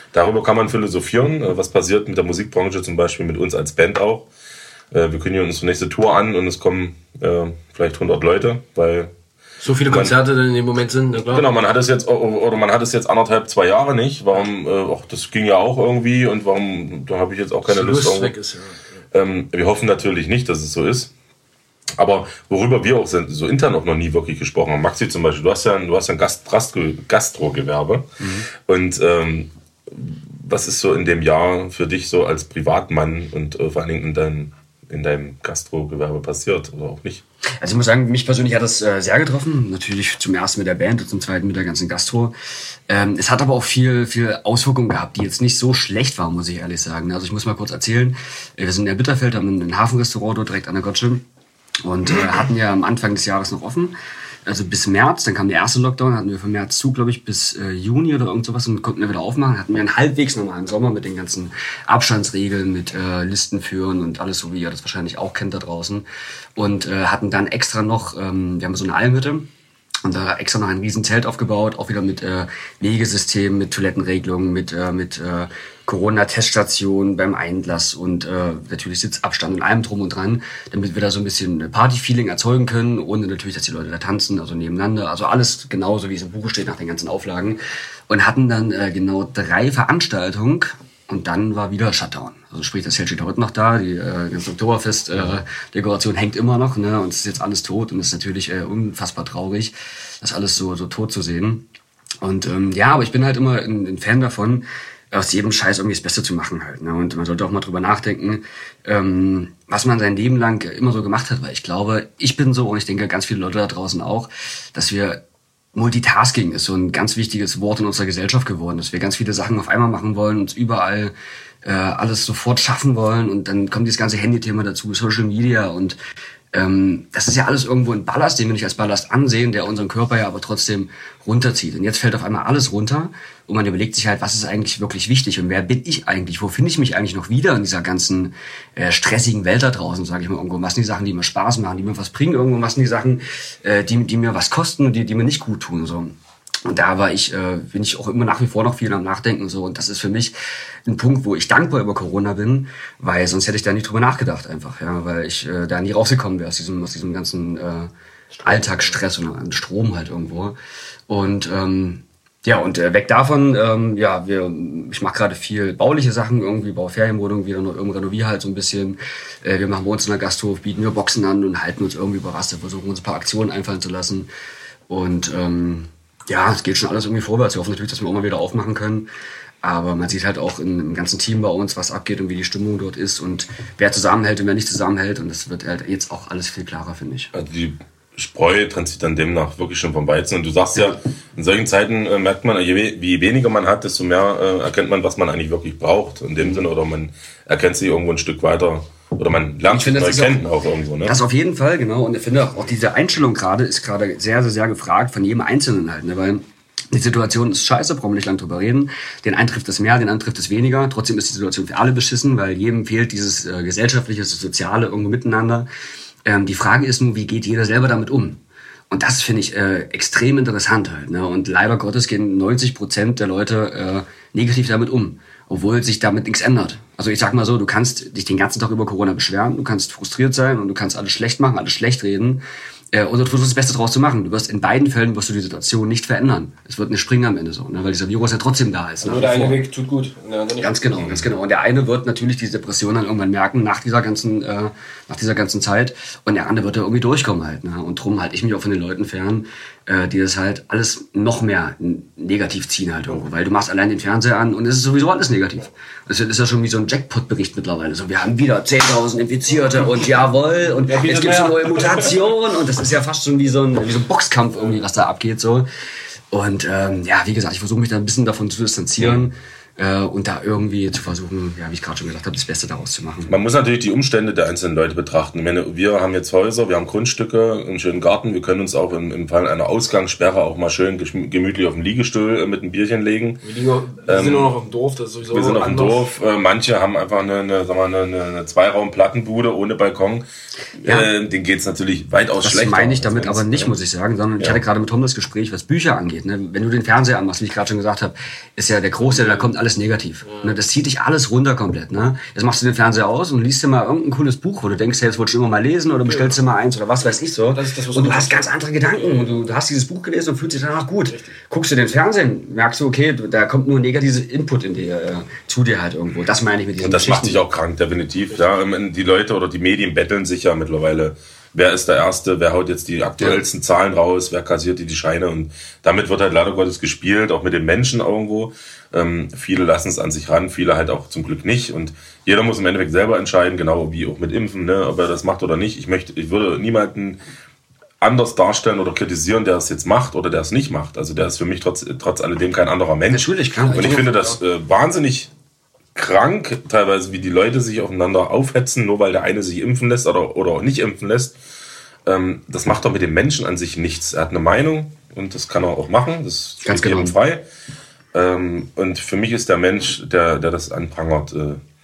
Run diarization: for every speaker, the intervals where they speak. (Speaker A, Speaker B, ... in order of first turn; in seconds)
Speaker A: 0.1-4.3, 4.9-9.1, 9.8-10.2, 11.2-18.3, 19.1-21.1, 22.0-28.1, 28.6-37.2, 187.3-201.2, 240.9-241.3, 273.3-283.4, 284.0-284.5, 285.3-290.2, 290.8-293.7, 316.8-337.2, 338.0-345.3, 345.9-351.3, 352.1-357.4, 358.1-361.6
Speaker B: 9.6-11.5, 17.7-19.0, 158.3-158.9, 239.0-240.8, 260.9-262.2, 283.4-286.1, 299.0-299.5, 300.2-300.6, 306.1-306.4, 307.5-309.5, 311.1-311.3, 343.7-344.4
Speaker C: 28.2-28.5, 37.6-42.3, 42.9-51.2, 51.8-53.9, 54.5-66.0, 66.5-69.5, 70.0-101.7, 102.2-115.2, 115.7-121.1, 121.6-126.0, 126.5-157.9, 158.4-160.5, 161.1-174.3, 174.9-179.1, 179.6-187.3, 199.7-200.4, 201.0-215.7, 216.2-239.6, 240.6-265.6, 266.3-273.3, 290.8-291.1, 292.4-317.4, 343.1-344.0, 356.6-357.2